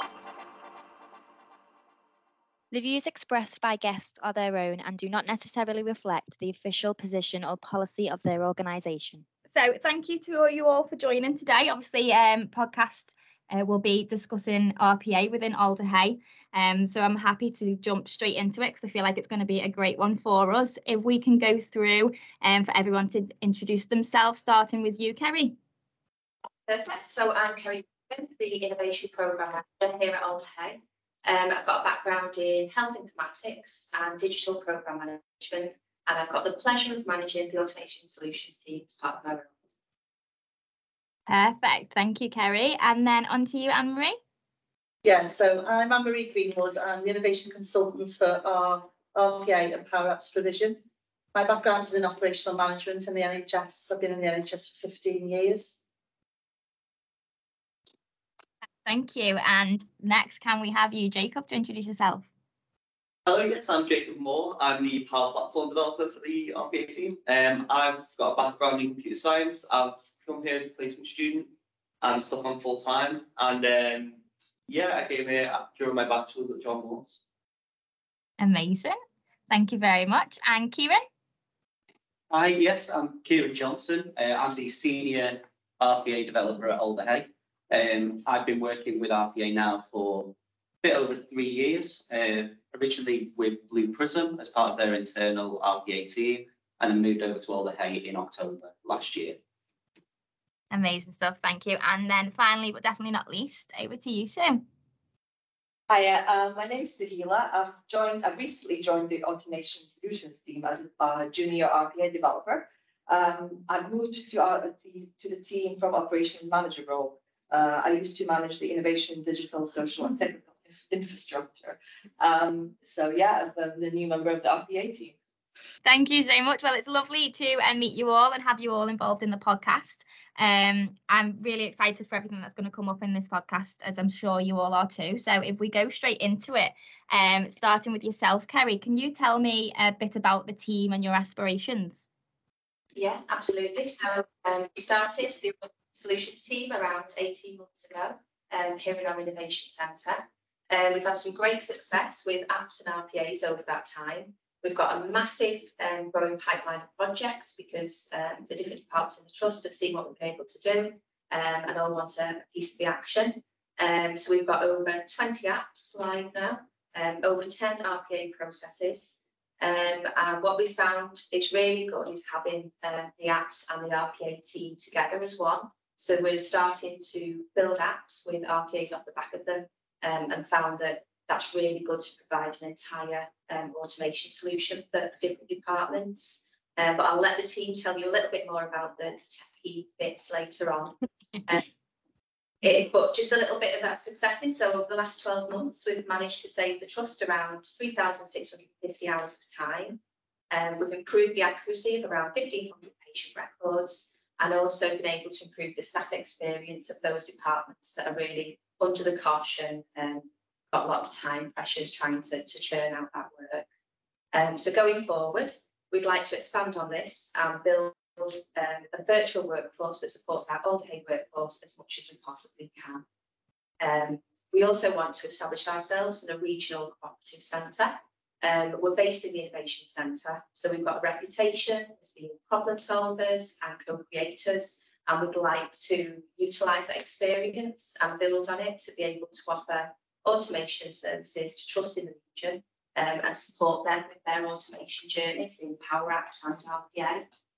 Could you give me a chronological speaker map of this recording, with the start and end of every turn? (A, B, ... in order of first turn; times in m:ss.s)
0:02.7-0:09.3 A
0:09.5-0:25.5 B
0:26.7-0:39.5 C
0:41.3-0:44.2 B
0:45.0-0:50.8 D
0:51.3-0:55.8 D
0:58.8-1:02.2 B
1:03.2-1:17.2 E
1:18.4-1:19.0 B
1:19.5-1:21.0 B
1:22.3-1:39.4 F
1:40.7-1:44.6 B
1:45.9-2:05.1 G
2:05.8-2:22.1 B
2:23.0-3:10.9 C
3:12.6-3:20.0 C
3:20.5-3:33.6 C
3:34.3-3:43.0 C
3:43.8-4:07.2 C